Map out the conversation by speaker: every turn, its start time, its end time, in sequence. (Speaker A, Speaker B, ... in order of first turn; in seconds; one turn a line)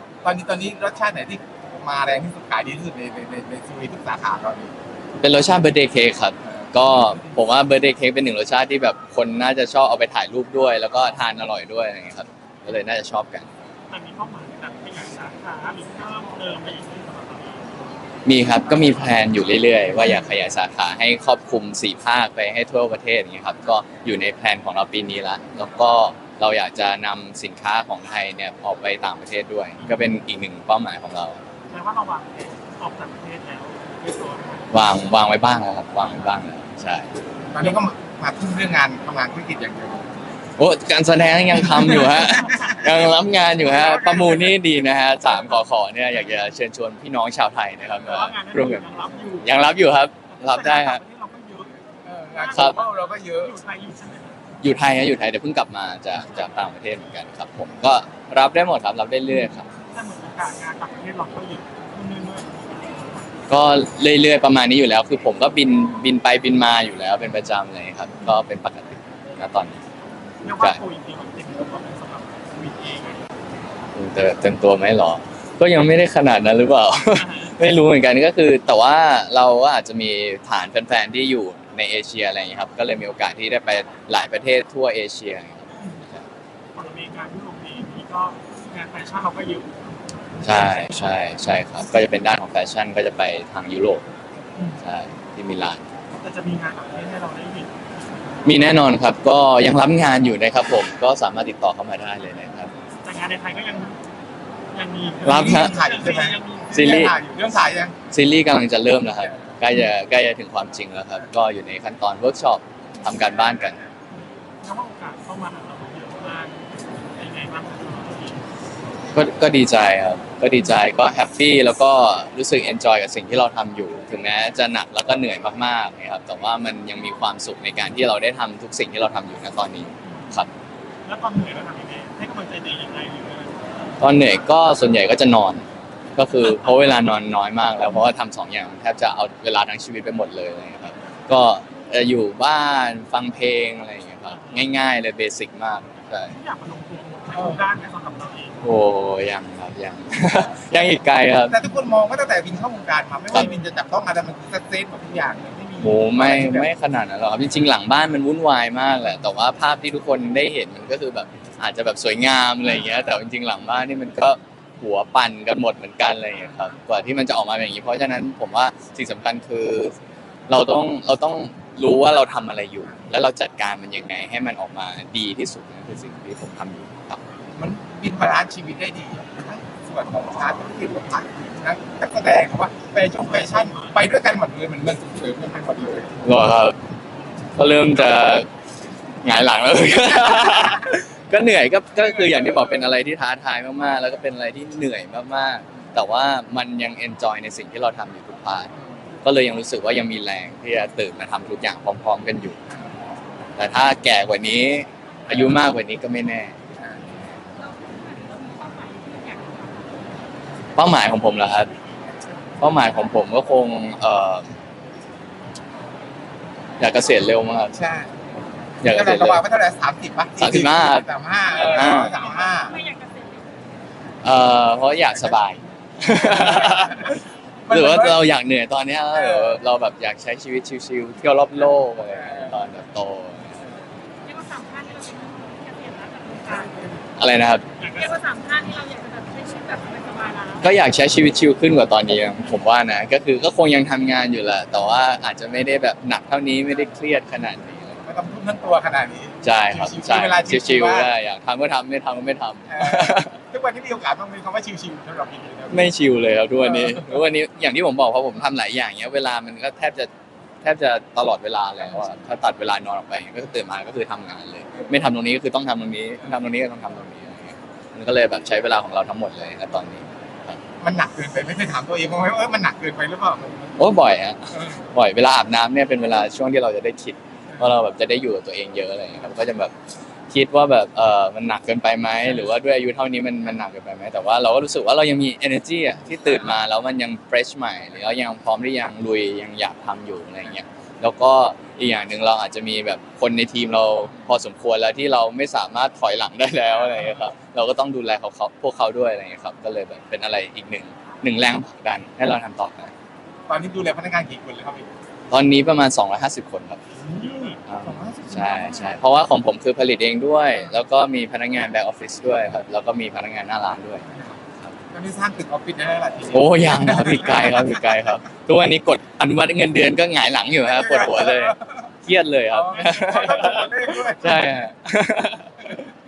Speaker A: 0.2-4.7
Speaker B: 5.2-13.5
Speaker A: 6.8-7.4
Speaker C: 13.9-17.7
Speaker B: 18.3-31.4
Speaker C: 31.7-34.7
Speaker B: 34.7-37.1
Speaker A: 37.5-40.1
Speaker B: 40.6-48.9
Speaker A: 41.6-42.7
Speaker C: 42.2-42.8
Speaker A: 43.6-44.6
Speaker C: 48.0-49.5
Speaker B: 49.4-51.0
Speaker C: 50.3-51.8
Speaker A: 52.1-53.6
Speaker C: 52.3-54.4
Speaker B: 54.6-59.7
Speaker C: 56.2-56.6
Speaker C: 59.8-63.3
Speaker B: 63.5-69.8
Speaker C: 70.4-73.3
Speaker B: 74.0-86.3
Speaker C: 77.1-77.6
Speaker C: 86.8-89.8
Speaker B: 90.4-94.0
Speaker B: 94.8-95.8
Speaker C: 96.1-97.7
Speaker B: 98.4-102.7
Speaker C: 103.0-104.0
Speaker C: 104.7-107.2
Speaker B: 105.2-105.8
Speaker A: 105.2-108.0
Speaker B: 106.7-107.2
Speaker B: 108.1-113.8
Speaker C: 114.6-118.4
Speaker B: 119.1-130.5
Speaker C: 130.1-130.4
Speaker C: 131.1-133.7
Speaker B: 134.0-135.7
Speaker B: 136.2-146.4
Speaker C: 144.3-144.7
Speaker C: 146.3-148.6
Speaker B: 148.6-151.6
Speaker A: 151.5-156.7
Speaker B: 155.8-169.9
Speaker B: 170.5-177.2
Speaker A: 177.6-186.2
Speaker C: 183.4-183.9
Speaker B: 186.2-186.8
Speaker B: 187.6-188.5
Speaker B: 189.2-198.7
Speaker A: 192.1-192.8
Speaker B: 199.2-202.6
Speaker B: 203.6-206.6
Speaker D: 207.8-209.9
Speaker B: 210.8-211.7
Speaker B: 212.6-214.5
Speaker B: 216.8-217.8
Speaker A: 217.7-218.1
Speaker B: 218.8-219.4
Speaker A: 218.8-222.8
Speaker B: 220.4-221.1
Speaker B: 221.6-222.2
Speaker D: 222.0-223.5
Speaker B: 224.2-233.6
Speaker A: 226.1-227.1
Speaker A: 227.7-228.2
Speaker A: 229.1-229.6
Speaker D: 234.2-236.7
Speaker B: 237.2-237.7
Speaker C: 237.8-238.2
Speaker D: 238.0-240.6
Speaker B: 240.6-248.0
Speaker A: 248.1-251.1
Speaker B: 249.4-253.4
Speaker A: 252.7-255.9
Speaker B: 255.7-260.1
Speaker A: 256.7-257.1
Speaker B: 260.6-270.6
Speaker A: 270.8-273.8
Speaker B: 273.8-279.7
Speaker A: 274.5-274.8
Speaker B: 280.3-302.9
Speaker A: 303.5-304.9
Speaker B: 305.3-306.8
Speaker C: 307.0-307.6
Speaker A: 307.1-309.0
Speaker B: 307.7-314.0
Speaker A: 314.1-314.4
Speaker A: 314.9-317.9
Speaker B: 316.3-325.8
Speaker A: 320.6-321.9
Speaker A: 322.5-324.4